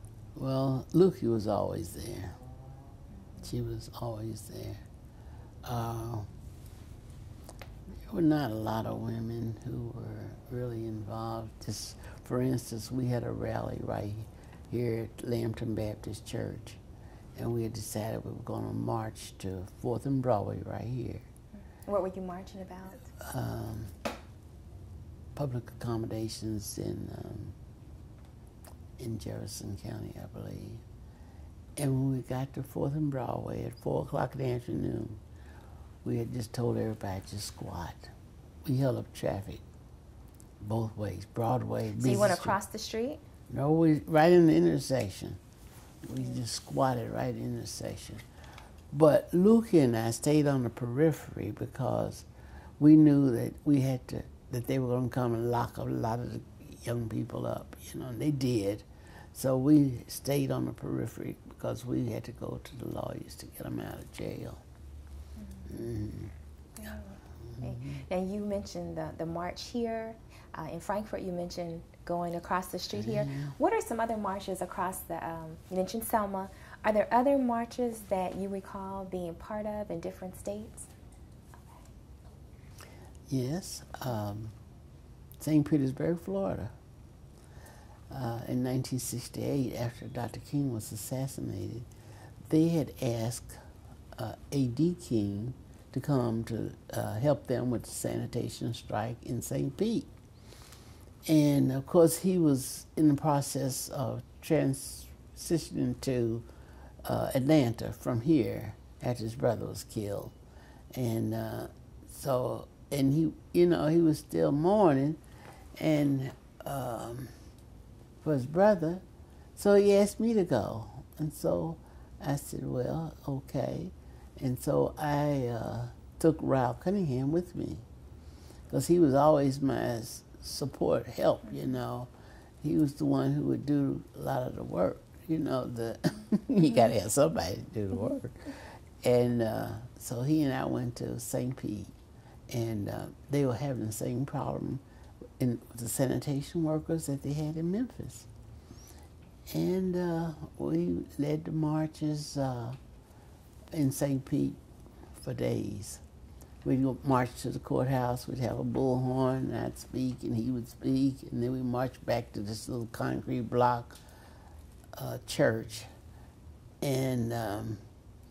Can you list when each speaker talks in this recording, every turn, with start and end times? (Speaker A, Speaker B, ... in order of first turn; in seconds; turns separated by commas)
Speaker A: 0.3-2.4, Speaker A: 3.4-4.8, Speaker A: 5.6-6.3, Speaker A: 8.0-16.8, Speaker A: 17.3-21.2, Speaker B: 21.8-23.1, Speaker A: 23.1-23.9, Speaker A: 25.3-27.6, Speaker A: 29.0-30.8, Speaker A: 31.8-35.2, Speaker A: 36.0-38.1, Speaker A: 38.6-39.6, Speaker A: 40.6-42.6, Speaker B: 42.0-43.2, Speaker A: 43.5-45.4, Speaker A: 46.0-48.2, Speaker A: 48.9-52.3, Speaker A: 52.8-64.6, Speaker A: 65.7-66.3, Speaker B: 66.8-80.9, Speaker A: 67.4-68.0, Speaker A: 72.9-73.5, Speaker A: 83.3-84.5, Speaker A: 85.4-86.7, Speaker A: 88.1-91.9, Speaker A: 92.5-93.6, Speaker A: 94.1-100.1, Speaker A: 101.2-106.5, Speaker A: 107.0-110.3, Speaker A: 110.9-115.2, Speaker A: 115.8-117.3, Speaker A: 118.2-119.0, Speaker A: 119.5-127.8, Speaker A: 128.7-132.1, Speaker A: 132.6-141.9, Speaker A: 142.5-144.8, Speaker A: 145.4-148.3, Speaker A: 149.5-152.8, Speaker A: 153.7-154.6, Speaker A: 155.2-156.0, Speaker A: 156.6-164.0, Speaker A: 164.9-165.9, Speaker A: 166.8-167.8